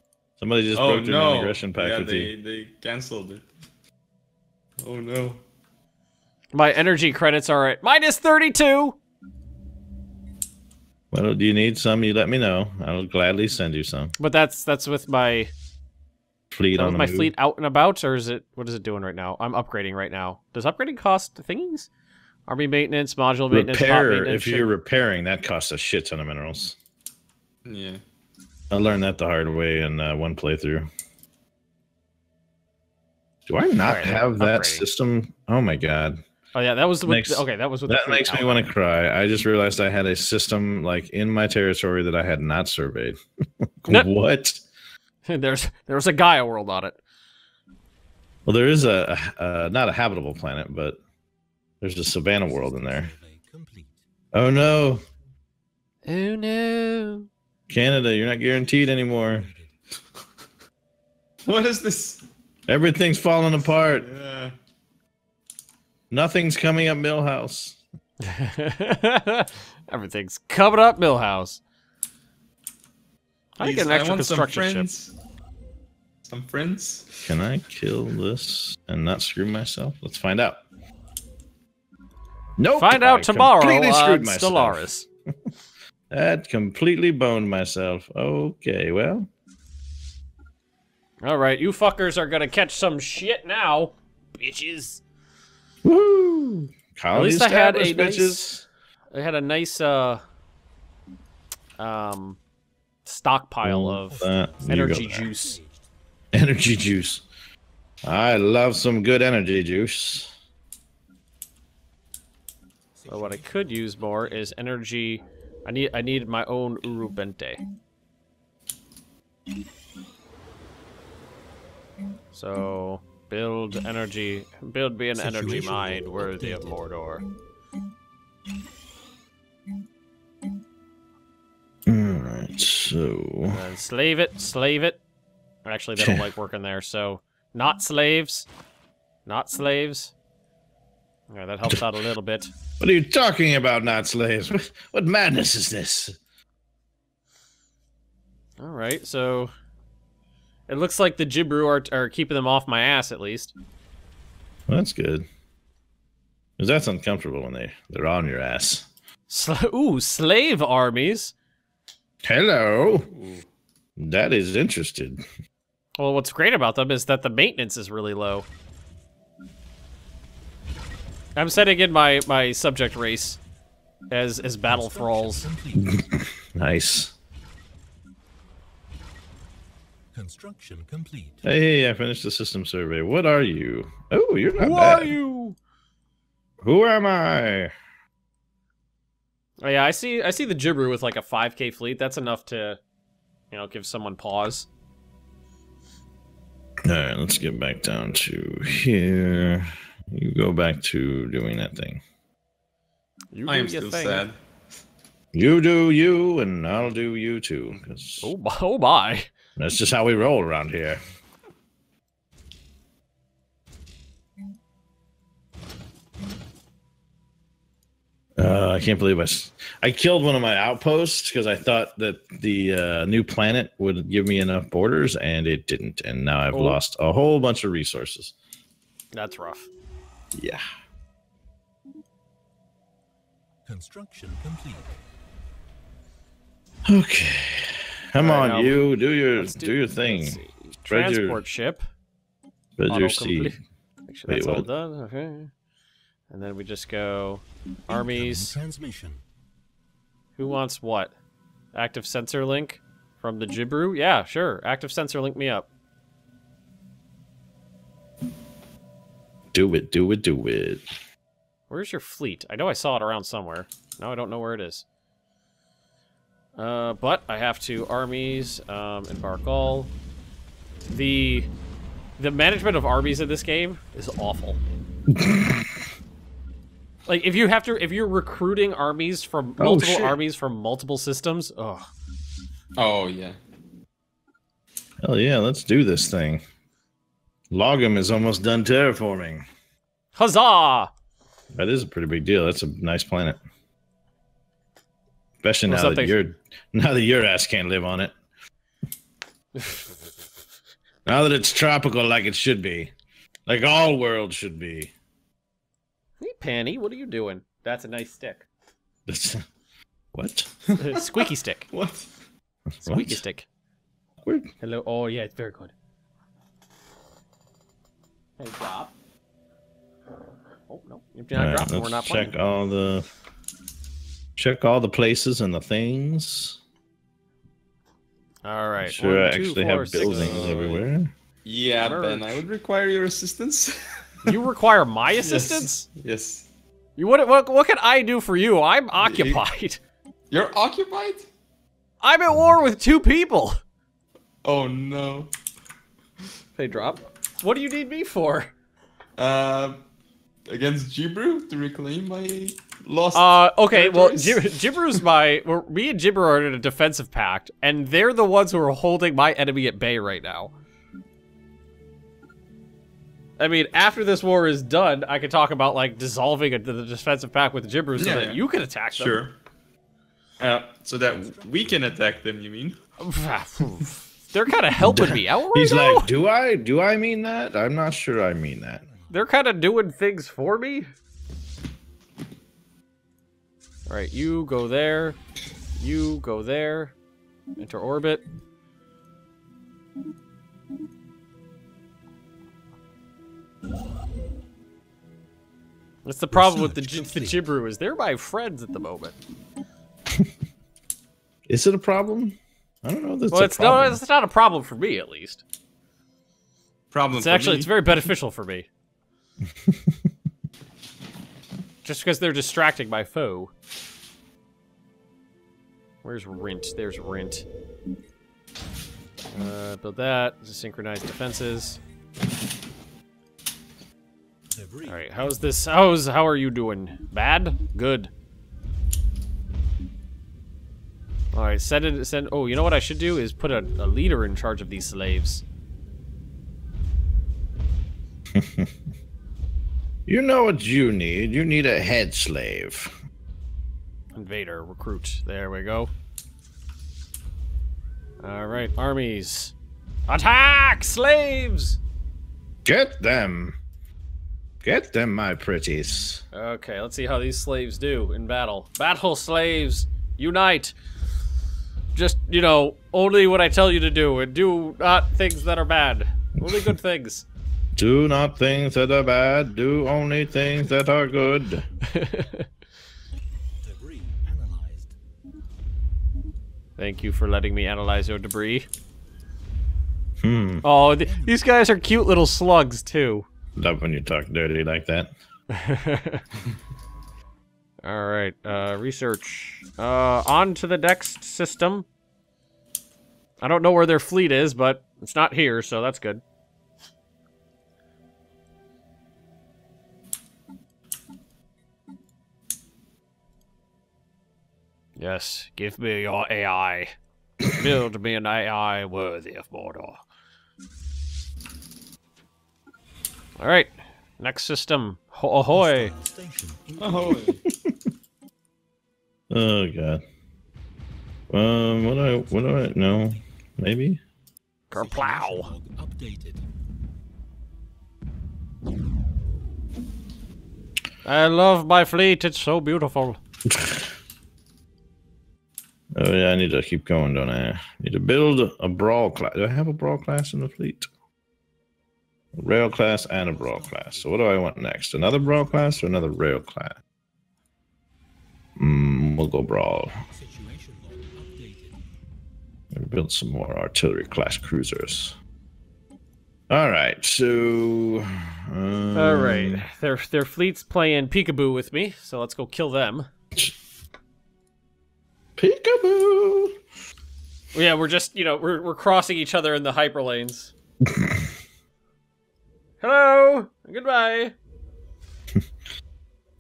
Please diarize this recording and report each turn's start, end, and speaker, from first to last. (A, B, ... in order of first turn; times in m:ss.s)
0:00.4-0:02.3 A
0:00.8-0:03.4 B
0:04.8-0:05.4 B
0:06.5-0:09.0 C
0:11.1-0:14.1 A
0:14.2-0:15.5 C
0:16.5-0:17.3 A
0:16.8-0:21.9 C
0:22.5-0:24.7 C
0:23.5-0:26.8 A
0:27.7-0:28.0 B
0:28.7-0:30.9 A
0:33.5-0:36.2 A
0:33.8-0:34.9 C
0:36.5-0:38.7 C
0:37.0-0:43.2 A
0:43.8-0:44.6 A
0:45.3-0:47.0 C
0:48.5-0:51.0 A
0:51.8-0:53.1 A
0:52.4-0:54.0 D
0:54.3-0:55.0 A
0:56.0-0:57.3 C
0:57.7-0:59.5 A
0:58.7-0:59.8 D
1:01.4-1:02.2 B
1:02.7-1:04.1 A
1:03.9-1:04.6 B
1:06.1-1:07.8 A
1:08.2-1:11.6 C
1:13.6-1:14.9 C
1:13.6-1:15.1 B
1:16.3-1:17.3 B
1:17.2-1:20.6 A
1:22.6-1:24.9 A
1:22.8-1:25.1 C
1:26.1-1:29.3 A
1:31.2-1:35.0 C
1:35.8-1:38.7 A
1:37.1-1:38.5 C
1:39.1-1:40.2 C
1:41.8-1:42.4 C
1:43.0-1:45.6 C
1:43.6-1:45.3 A
1:44.1-1:45.9 D
1:46.3-1:47.2 A
1:48.0-1:50.3 A
1:53.0-1:54.6 D
1:53.1-1:57.6 C
2:02.3-2:07.2 C
2:05.2-2:06.8 D
2:11.9-2:13.6 A
2:13.5-2:15.0 C
2:15.6-2:18.5 C
2:16.0-2:16.2 A
2:19.3-2:20.1 C
2:21.3-2:22.5 C
2:22.8-2:26.2 A
2:28.6-2:29.5 C
2:30.7-2:33.5 C
2:34.7-2:35.3 A
2:36.6-2:38.9 A
2:39.3-2:41.3 C
2:42.2-2:43.1 A
2:43.1-2:43.4 B
2:44.0-2:45.2 A
2:46.0-2:48.5 C
2:51.4-2:53.4 C
2:54.1-2:55.5 C
2:54.6-2:56.0 D
2:55.8-2:57.1 A
3:00.1-3:01.4 D
3:01.4-3:05.2 A
3:04.6-3:05.6 C
3:06.6-3:07.7 A
3:09.6-3:12.8 C
3:13.5-3:14.7 C
3:16.9-3:22.0 A
3:23.3-3:24.3 C
3:23.5-3:24.4 B
3:25.3-3:28.3 A
3:28.2-3:29.3 C
3:29.6-3:31.0 A
3:38.4-3:48.3 A
3:46.5-3:46.8 C
3:49.1-3:49.7 C
3:50.3-3:50.6 A
3:53.6-3:55.0 D
3:56.9-4:01.4 A
3:58.2-3:58.8 C
3:59.3-4:01.8 C
4:02.8-4:03.6 A
4:02.9-4:05.5 C
4:04.3-4:04.7 A
4:06.3-4:08.6 C
4:07.9-4:09.2 D
4:10.4-4:11.1 C
4:11.7-4:15.7 C
4:19.5-4:20.8 A
4:21.7-4:24.9 C
4:26.6-4:29.9 C
4:30.9-4:31.5 C
4:32.2-4:34.6 C
4:35.1-4:35.8 A
4:37.1-4:41.9 C
4:39.6-4:40.2 A
4:42.8-4:43.4 B
4:45.0-4:46.4 A
4:47.5-4:49.4 A
4:50.2-4:50.9 C
4:51.5-4:53.4 A
4:55.4-4:58.1 A
4:55.7-4:56.1 C
5:01.1-5:02.9 A
5:03.5-5:04.9 A
5:06.2-5:08.5 C
5:09.1-5:09.4 A
5:10.1-5:10.5 A
5:10.7-5:12.1 B
5:10.7-5:11.7 C
5:12.8-5:13.2 A
5:12.8-5:13.4 C
5:14.2-5:14.5 A
5:14.6-5:15.7 C
5:18.4-5:18.9 C
5:20.7-5:22.4 C
5:21.3-5:23.1 A
5:24.4-5:26.6 A
5:28.4-5:30.5 C
5:28.8-5:31.1 A
5:30.0-5:30.8 B
5:31.4-5:34.4 B
5:31.8-5:32.4 C
5:34.3-5:35.9 C
5:35.2-5:36.5 B
5:37.0-5:39.8 C
5:39.0-5:39.4 B
5:40.3-5:41.3 B
5:42.0-5:43.6 C
5:44.4-5:45.3 B
5:46.6-5:48.5 C
5:49.2-5:49.8 B
5:50.5-5:54.5 B
5:53.1-6:00.5 C
6:03.4-6:09.2 C
6:08.0-6:08.4 B
6:08.9-6:09.3 B
6:10.4-6:12.8 B
6:11.1-6:12.0 D
6:13.0-6:16.1 C
6:14.8-6:18.8 A
6:18.7-6:19.3 D
6:19.1-6:20.9 C
6:23.9-6:25.2 C
6:25.8-6:26.9 C
6:27.6-6:28.2 C
6:36.0-6:39.2 C
6:36.3-6:37.4 D
6:41.5-6:44.0 A
6:43.3-6:45.4 C
6:46.9-6:47.8 B
6:47.1-6:48.7 C
6:49.7-6:49.9 A
6:51.8-6:53.5 C
6:56.0-6:57.4 C
6:59.3-7:01.8 C
7:04.5-7:05.5 D
7:04.8-7:08.1 C
7:11.3-7:15.4 C
7:18.3-7:18.7 A
7:20.1-7:23.0 A
7:24.2-7:25.9 C
7:28.2-7:29.5 C
7:30.1-7:31.8 C
7:32.6-7:33.6 A
7:34.6-7:36.2 A
7:36.3-7:40.8 C
7:41.9-7:47.3 C
7:46.4-7:46.7 A
7:47.8-7:51.6 A
7:51.8-7:52.5 C
7:53.6-7:55.0 D
7:56.8-7:58.7 C
8:00.2-8:00.6 A
8:00.6-8:03.3 C
8:00.8-8:01.4 D
8:03.6-8:05.1 A
8:05.5-8:06.2 C
8:07.8-8:11.9 C
8:13.4-8:16.2 C
8:25.0-8:30.0 C
8:33.4-8:35.9 C
8:35.5-8:37.4 D
8:36.8-8:37.4 B
8:39.3-8:40.0 A
8:41.3-8:44.0 A
8:41.7-8:43.2 D
8:44.7-8:45.5 C
8:44.7-8:46.4 D
8:51.0-8:53.2 C
8:53.4-8:53.9 A
8:55.9-9:00.9 A
9:02.4-9:06.8 A
9:02.8-9:06.4 D
9:08.6-9:09.9 A
9:10.1-9:11.8 D
9:12.7-9:15.2 A
9:16.5-9:19.6 A
9:18.9-9:23.1 C
9:25.4-9:26.6 A
9:27.5-9:30.5 C
9:30.8-9:31.2 A
9:32.8-9:34.3 C